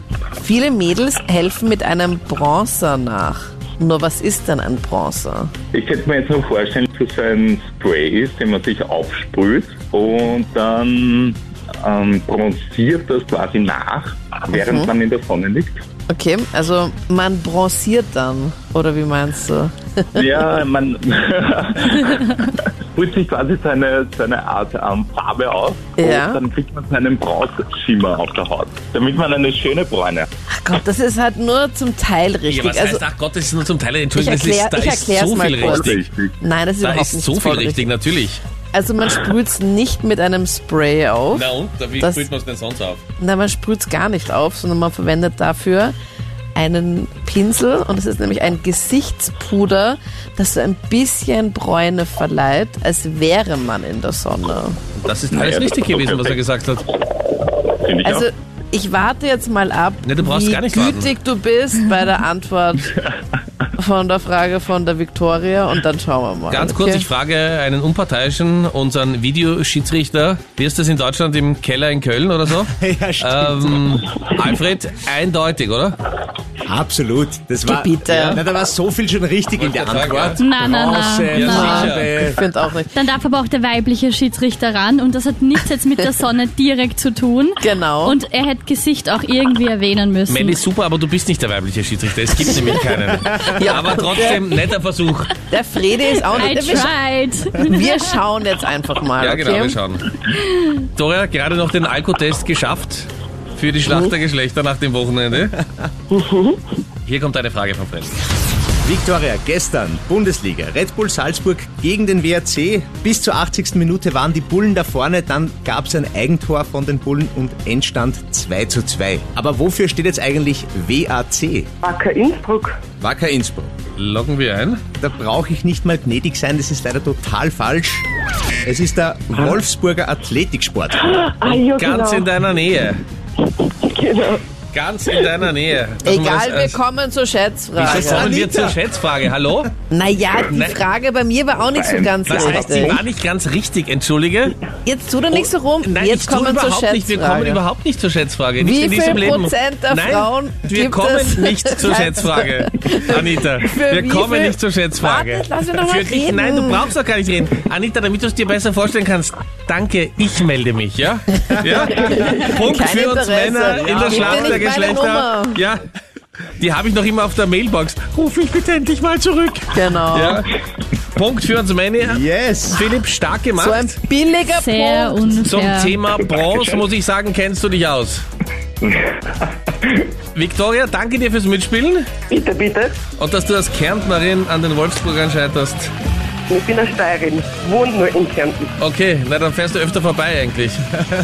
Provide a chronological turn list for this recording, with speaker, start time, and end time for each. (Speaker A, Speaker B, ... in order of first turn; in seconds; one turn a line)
Speaker A: 0.4-5.5
Speaker B: 5.7-15.8
Speaker A: 14.5-14.9
Speaker A: 16.1-20.3
Speaker B: 20.1-30.3
Speaker A: 26.0-26.4
Speaker A: 30.6-33.0
Speaker C: 32.5-36.0
Speaker A: 34.1-37.9
Speaker B: 35.6-36.4
Speaker C: 36.8-38.4
Speaker A: 38.7-41.4
Speaker C: 41.3-43.0
Speaker A: 42.0-42.2
Speaker A: 43.2-45.9
Speaker A: 46.5-54.8
Speaker C: 55.0-56.9
Speaker B: 55.3-56.4
Speaker B: 57.7-58.3
Speaker A: 58.0-62.9
Speaker C: 60.0-61.1
Speaker A: 63.8-67.1
Speaker C: 66.5-76.0
Speaker D: 72.8-74.0
Speaker D: 76.7-82.4
Speaker A: 77.6-78.4
Speaker C: 78.1-78.4
Speaker C: 79.6-80.4
Speaker E: 80.4-82.0
Speaker C: 81.3-82.0
Speaker A: 81.4-83.0
Speaker E: 82.9-90.6
Speaker A: 87.6-88.2
Speaker C: 90.3-95.3
Speaker A: 93.4-94.4
Speaker A: 95.5-96.9
Speaker E: 96.3-98.2
Speaker A: 97.6-99.8
Speaker C: 99.2-100.2
Speaker E: 100.3-100.7
Speaker C: 101.0-105.6
Speaker F: 106.1-106.6
Speaker C: 107.0-108.2
Speaker D: 108.8-121.7
Speaker F: 121.8-122.8
Speaker D: 123.0-123.7
Speaker C: 124.0-124.8
Speaker D: 125.0-128.1
Speaker D: 128.6-131.1
Speaker F: 131.1-132.3
Speaker C: 131.4-133.0
Speaker F: 133.6-134.4
Speaker C: 134.7-136.8
Speaker A: 136.0-138.3
Speaker C: 137.8-139.7
Speaker D: 137.8-138.8
Speaker A: 139.9-143.0
Speaker C: 140.5-140.8
Speaker B: 141.7-143.0
Speaker C: 142.3-144.6
Speaker A: 144.8-147.6
Speaker C: 145.3-165.8
Speaker A: 148.6-156.9
Speaker A: 161.5-165.6
Speaker D: 161.7-162.4
Speaker D: 163.7-164.8
Speaker C: 166.6-170.5
Speaker A: 169.7-170.4
Speaker C: 171.1-174.0
Speaker D: 172.0-172.9
Speaker A: 173.6-175.3
Speaker E: 174.5-176.0
Speaker C: 175.3-178.2
Speaker B: 178.8-180.1
Speaker C: 180.3-182.1
Speaker F: 182.3-183.0
Speaker C: 183.2-185.9
Speaker F: 186.5-188.7
Speaker C: 188.8-190.9